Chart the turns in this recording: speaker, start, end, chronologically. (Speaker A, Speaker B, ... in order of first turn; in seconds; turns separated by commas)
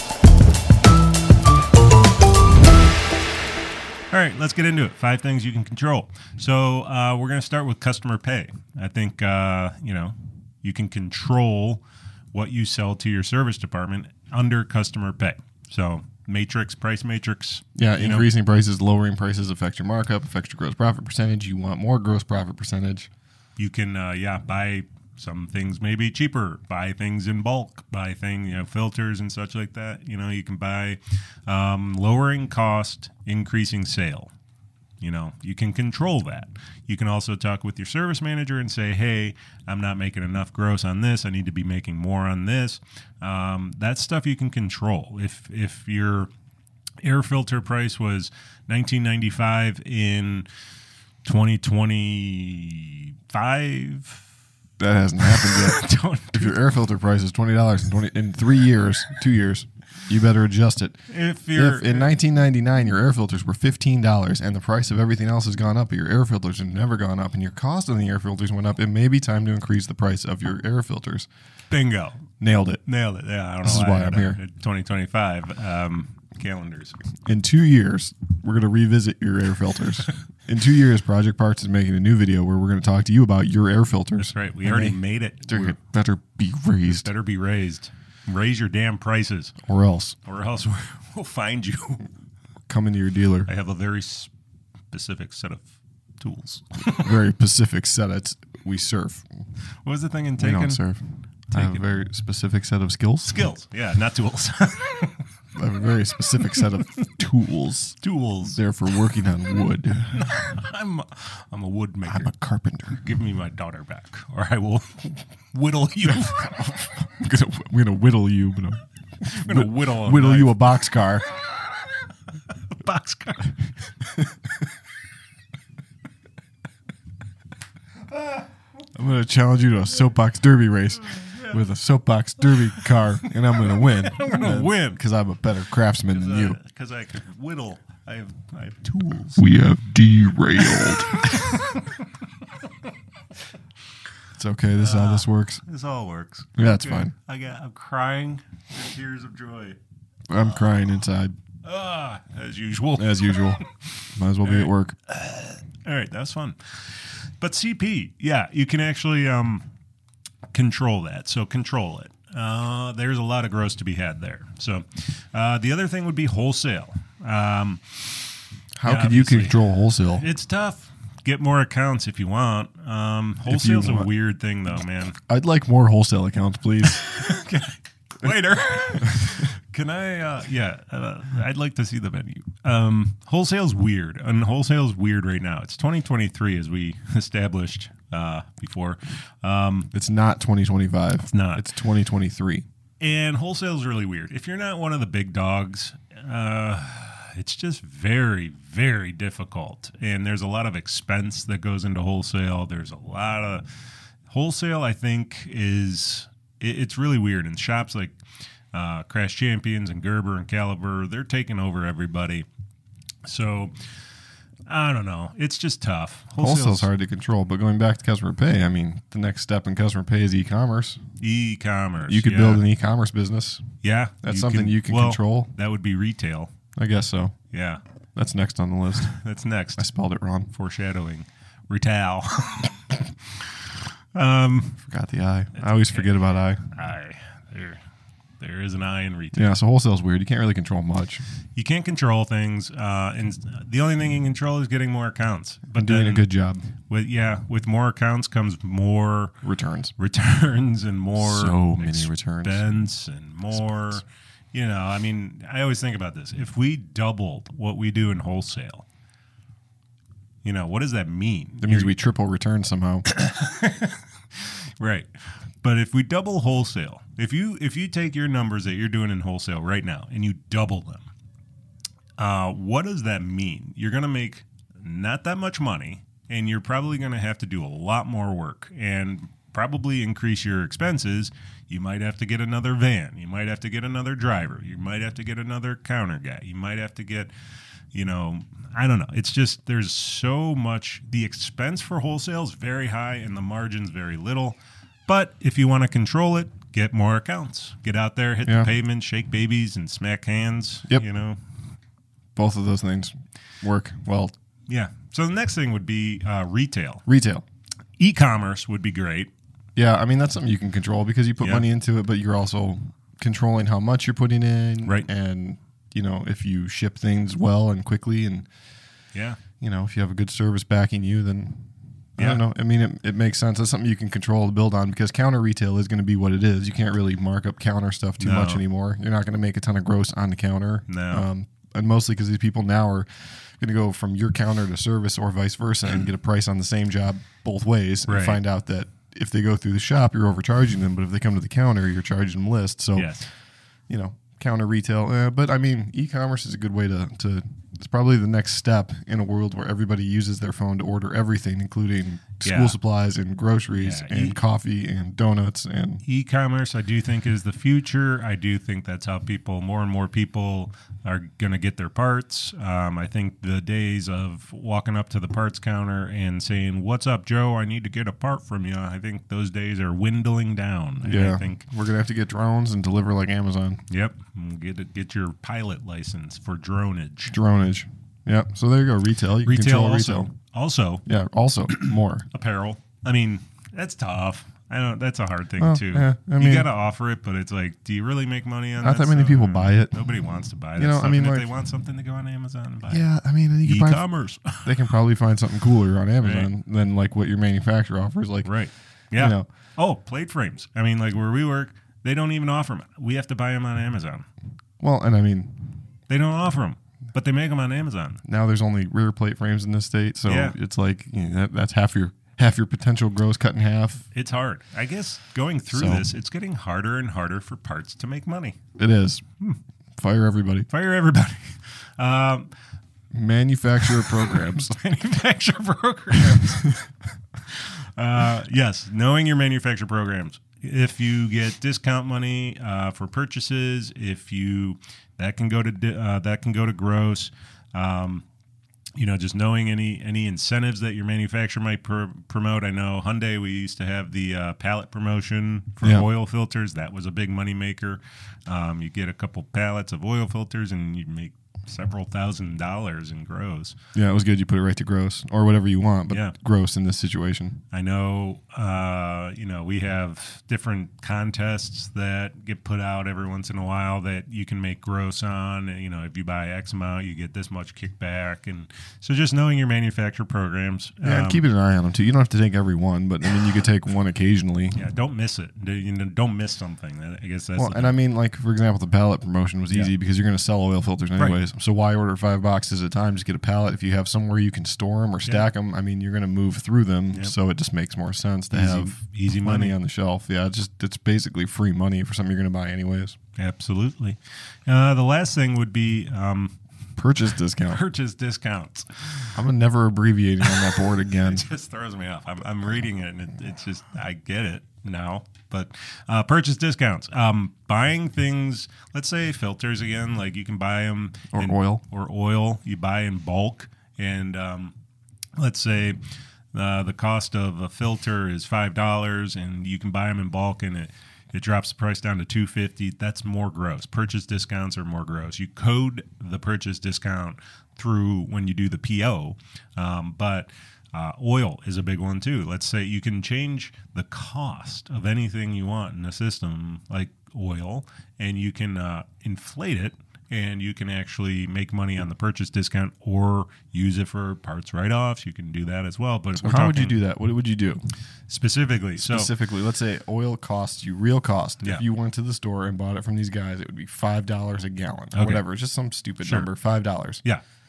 Speaker A: 4.1-18.3, Speaker B: 17.8-23.1, Speaker A: 23.6-34.3, Speaker A: 35.0-46.3, Speaker A: 47.0-50.5, Speaker A: 51.2-54.3, Speaker B: 54.8-71.3, Speaker A: 55.2-56.6, Speaker A: 61.1-62.2, Speaker A: 71.7-72.3, Speaker B: 72.4-72.8, Speaker A: 72.8-77.0, Speaker B: 73.6-74.4, Speaker B: 77.3-87.1, Speaker A: 84.2-85.8, Speaker A: 86.9-89.5, Speaker B: 89.7-90.2, Speaker A: 90.2-92.1, Speaker B: 92.7-93.5, Speaker A: 93.5-94.3, Speaker A: 94.9-97.2, Speaker B: 97.0-99.3, Speaker A: 99.8-100.8, Speaker B: 100.4-103.4, Speaker A: 101.5-101.8, Speaker A: 103.2-105.2, Speaker B: 105.5-110.3, Speaker A: 108.0-108.6, Speaker A: 110.1-112.3, Speaker B: 112.0-113.0, Speaker A: 112.9-116.8, Speaker B: 116.2-121.3, Speaker A: 119.2-120.8, Speaker A: 122.5-123.7, Speaker B: 128.9-136.6, Speaker A: 131.2-131.6, Speaker A: 134.1-135.0, Speaker A: 136.1-139.5, Speaker B: 139.4-141.3, Speaker A: 140.7-142.6, Speaker B: 144.3-145.6, Speaker A: 144.8-149.8, Speaker B: 146.6-147.1, Speaker B: 150.3-151.3, Speaker A: 151.6-153.8, Speaker B: 153.0-154.9, Speaker A: 154.4-159.7, Speaker A: 160.5-169.6, Speaker B: 168.8-170.3, Speaker A: 170.2-175.2, Speaker B: 173.5-174.1, Speaker B: 175.3-177.2, Speaker A: 176.8-189.9, Speaker B: 189.9-192.7, Speaker A: 191.3-191.7, Speaker A: 193.0-203.7, Speaker A: 204.3-208.2, Speaker A: 208.7-212.5, Speaker A: 213.2-213.8, Speaker A: 214.7-216.9, Speaker B: 216.4-221.0, Speaker A: 221.2-222.7, Speaker B: 222.0-223.6, Speaker A: 223.8-226.5, Speaker B: 224.2-225.5, Speaker B: 226.8-227.3, Speaker A: 227.5-227.8, Speaker B: 228.2-229.1, Speaker A: 229.0-229.9, Speaker B: 229.8-230.5, Speaker A: 230.5-234.8, Speaker B: 234.8-236.7, Speaker A: 235.6-236.1, Speaker A: 236.7-237.8, Speaker A: 238.4-239.6, Speaker B: 239.3-241.2, Speaker A: 241.6-246.3, Speaker B: 245.8-246.7, Speaker A: 246.9-249.3, Speaker B: 249.4-249.9, Speaker A: 250.0-258.9, Speaker B: 251.2-252.7, Speaker B: 253.6-254.0, Speaker A: 260.4-262.0, Speaker B: 261.6-263.1, Speaker A: 263.1-265.1, Speaker A: 265.6-271.1, Speaker A: 272.2-287.3, Speaker A: 287.9-301.4, Speaker B: 298.4-298.7, Speaker B: 302.4-304.3, Speaker A: 304.7-307.0, Speaker B: 307.1-307.4, Speaker A: 308.0-309.3, Speaker B: 309.8-318.5, Speaker A: 319.1-319.4, Speaker B: 319.6-343.1, Speaker A: 322.2-322.4, Speaker A: 328.2-328.6, Speaker A: 330.9-331.3, Speaker A: 338.1-338.4, Speaker A: 343.0-343.3, Speaker B: 343.9-356.0, Speaker A: 352.4-352.8, Speaker A: 353.7-354.4, Speaker A: 356.0-371.7, Speaker B: 371.0-373.8, Speaker A: 373.9-377.4, Speaker B: 377.3-380.3, Speaker A: 379.4-381.0, Speaker B: 381.1-382.3, Speaker A: 381.7-393.1, Speaker B: 385.6-386.7, Speaker B: 388.8-390.1, Speaker B: 390.8-391.5, Speaker B: 392.9-398.5, Speaker A: 393.6-394.9, Speaker A: 396.2-396.5, Speaker A: 398.4-404.3, Speaker B: 399.2-399.5, Speaker B: 404.8-405.8, Speaker A: 406.1-408.2, Speaker B: 408.2-414.1, Speaker A: 410.2-410.6, Speaker A: 414.1-418.6, Speaker B: 415.7-416.1, Speaker B: 418.8-419.2, Speaker B: 420.0-420.7, Speaker A: 420.7-422.5, Speaker B: 423.1-424.8, Speaker A: 423.9-426.9, Speaker A: 427.5-438.2, Speaker A: 439.0-453.8, Speaker B: 445.8-446.1, Speaker B: 453.9-457.6, Speaker A: 456.1-456.4, Speaker A: 457.7-471.4, Speaker B: 471.0-474.8, Speaker A: 474.8-477.9, Speaker B: 477.6-493.2, Speaker A: 488.5-489.8, Speaker A: 493.4-496.6, Speaker B: 497.0-497.8, Speaker A: 497.6-499.3, Speaker B: 499.4-501.5, Speaker A: 500.4-514.7, Speaker B: 511.3-511.8, Speaker A: 515.4-516.0, Speaker A: 516.5-546.9, Speaker B: 546.4-547.8, Speaker A: 548.3-549.3, Speaker B: 549.0-557.2, Speaker A: 555.1-555.4, Speaker A: 556.2-556.5